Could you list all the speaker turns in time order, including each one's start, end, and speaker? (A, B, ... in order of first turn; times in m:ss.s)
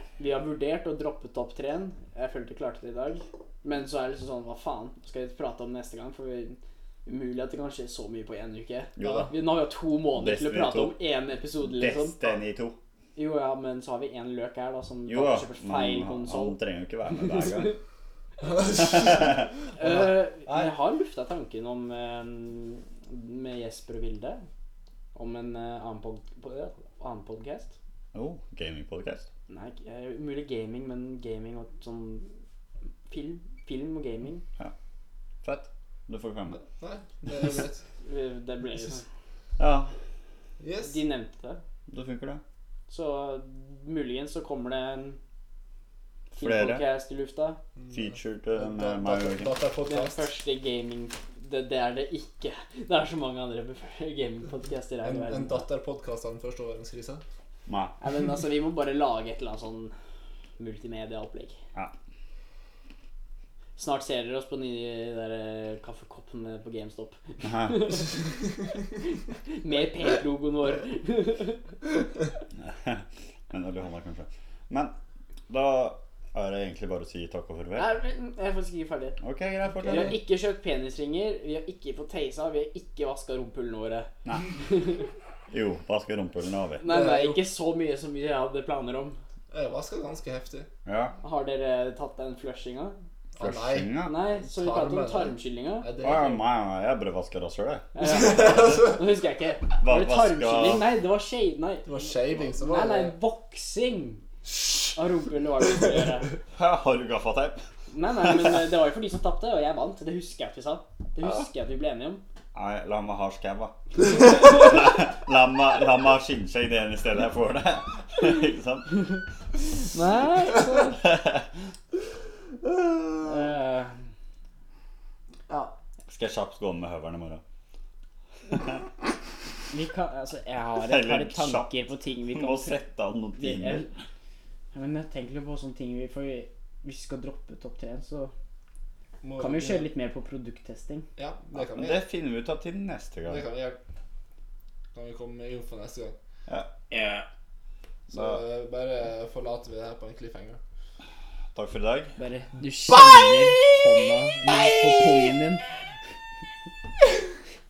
0:00.2-0:12.2 A
0:09.0-0:09.3 B
0:10.1-0:11.0 B
0:11.6-0:12.8 B
0:13.2-0:16.6 A
0:15.1-0:17.8 B
0:17.1-0:17.8 A
0:18.5-0:19.0 A
0:18.6-0:19.5 B
0:19.8-0:24.4 A
0:25.1-0:27.7 A
0:28.1-0:29.3 B
0:29.5-0:32.3 A
0:33.1-0:34.4 A
0:35.4-0:36.6 B
0:36.6-0:37.8 C
0:38.0-0:39.0 A
0:39.6-0:39.9 B
0:40.6-0:41.0 C
0:40.8-0:41.6 A
0:41.9-0:42.4 B
0:42.9-0:45.2 A
0:46.3-0:46.8 B
0:46.4-0:47.6 A
0:47.9-0:49.5 B
0:48.5-0:50.3 C
0:49.8-0:55.6 A
0:55.0-0:57.2 C
0:57.7-0:58.0 B
0:58.0-0:59.9 A
1:00.6-1:01.6 A
1:03.8-1:11.6 A
1:07.4-1:08.0 B
1:12.5-1:14.9 B
1:15.5-1:17.9 B
1:17.8-1:19.2 A
1:19.2-1:20.1 B
1:19.8-1:25.0 A
1:25.5-1:26.8 B
1:26.8-1:29.2 A
1:26.8-1:27.4 C
1:29.5-1:30.7 C
1:30.8-1:31.2 B
1:31.2-1:33.0 A
1:33.4-1:36.4 C
1:33.4-1:34.1 B
1:34.0-1:35.9 A
1:36.0-1:38.9 B
1:37.9-1:41.9 A
1:38.3-1:38.8 C
1:39.8-1:40.9 B
1:41.8-1:43.2 C
1:42.5-1:44.2 A
1:45.0-1:46.3 A
1:46.5-1:47.6 B
1:47.9-1:52.2 A
1:52.5-1:59.2 B
1:59.8-2:01.0 A
2:00.9-2:01.5 B
2:03.2-2:03.9 A
2:06.1-2:07.4 B
2:08.5-2:08.8 B
2:09.7-2:12.8 A
2:10.8-2:11.7 B
2:12.3-2:13.9 B
2:13.4-2:13.9 A
2:14.7-2:18.3 A
2:19.2-2:19.9 C
2:19.4-2:21.1 A
2:21.2-2:22.0 C
2:21.6-2:23.4 B
2:23.3-2:23.8 C
2:24.9-2:26.1 C
2:26.9-2:27.2 A
2:28.1-2:30.6 C
2:28.1-2:28.4 B
2:31.5-2:32.1 B
2:32.2-2:35.6 A